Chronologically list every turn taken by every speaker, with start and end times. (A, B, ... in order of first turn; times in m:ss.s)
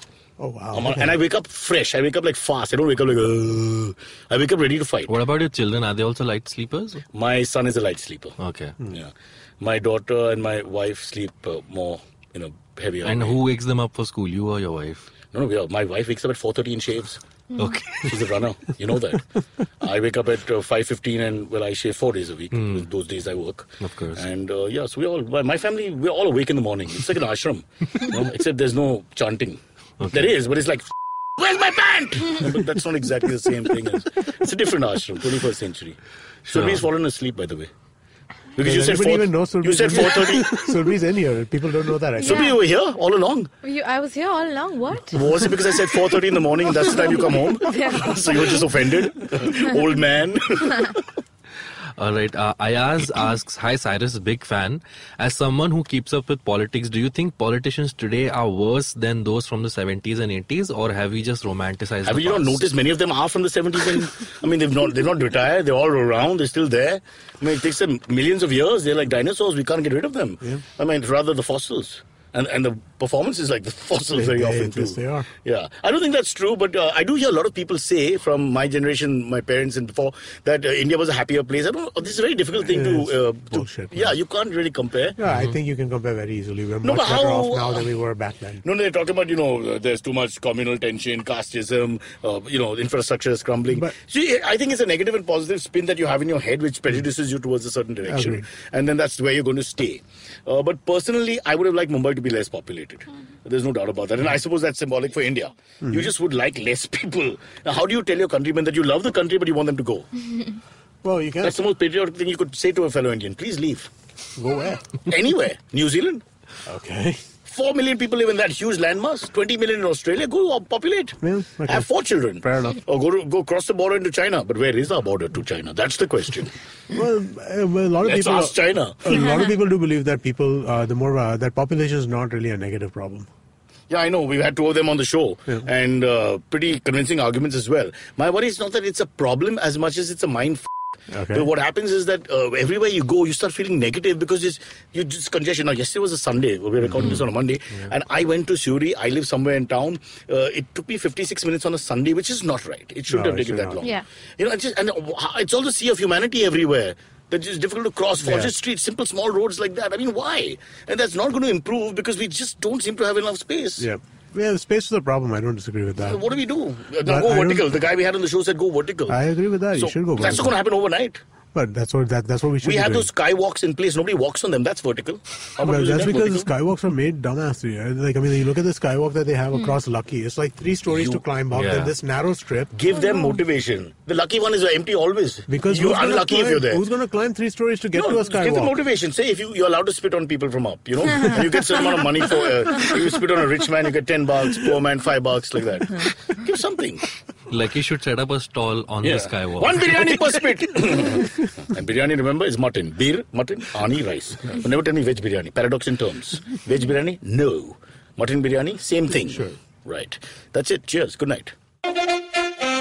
0:00.4-0:01.1 A
0:00.7-0:05.1 B
0:05.1-0:07.0 C
0:07.1-0:08.3 B
0:08.4-0:08.7 C
0:08.9-0:13.4 B
0:13.0-0:15.1 C
0:15.3-0:17.2 B
0:17.6-0:18.1 C
0:18.0-0:19.2 B
0:19.8-0:37.7 B
0:22.5-0:22.8 C
0:23.8-0:24.2 C
0:36.5-0:36.8 C
0:38.6-0:40.7 B
0:38.6-0:42.5 A
0:42.2-0:42.6 D
0:42.2-0:43.5 B
0:43.6-0:45.9 D
0:45.1-0:51.0 B
0:46.7-0:48.7 D
0:52.0-1:02.6 C
1:02.0-1:25.2 B
1:14.1-1:15.3 A
1:22.7-1:24.1 A
1:25.2-1:28.6 A
1:25.3-1:25.6 C
1:26.8-1:27.9 B
1:28.6-1:50.1 B
1:38.0-1:38.4 A
1:45.8-1:46.1 A
1:51.0-1:51.6 A
1:51.4-1:53.9 B
1:54.4-1:55.0 A
1:55.0-1:56.2 B
1:56.6-1:57.2 A
1:57.5-2:06.5 B
2:01.2-2:02.8 A
2:06.9-2:13.3 A
2:08.0-2:09.2 B
2:13.9-2:20.7 B
2:21.1-2:21.5 A
2:21.3-2:43.9 B
2:26.8-2:27.2 A
2:33.1-2:33.8 A
2:33.8-2:34.0 D
2:38.2-2:38.5 A
2:43.8-2:46.2 A
2:46.0-2:49.2 B
2:47.0-2:47.7 A
2:49.1-2:50.6 A
2:49.7-2:51.2 B
2:51.5-2:53.1 A
2:52.6-2:56.5 B
2:55.6-3:02.7 A
2:59.5-2:59.8 D
3:00.9-3:01.2 B
3:01.5-3:01.9 C
3:02.7-3:06.8 B
3:05.5-3:08.8 A
3:07.9-3:17.0 B
3:17.5-3:20.3 C
3:19.0-3:31.5 B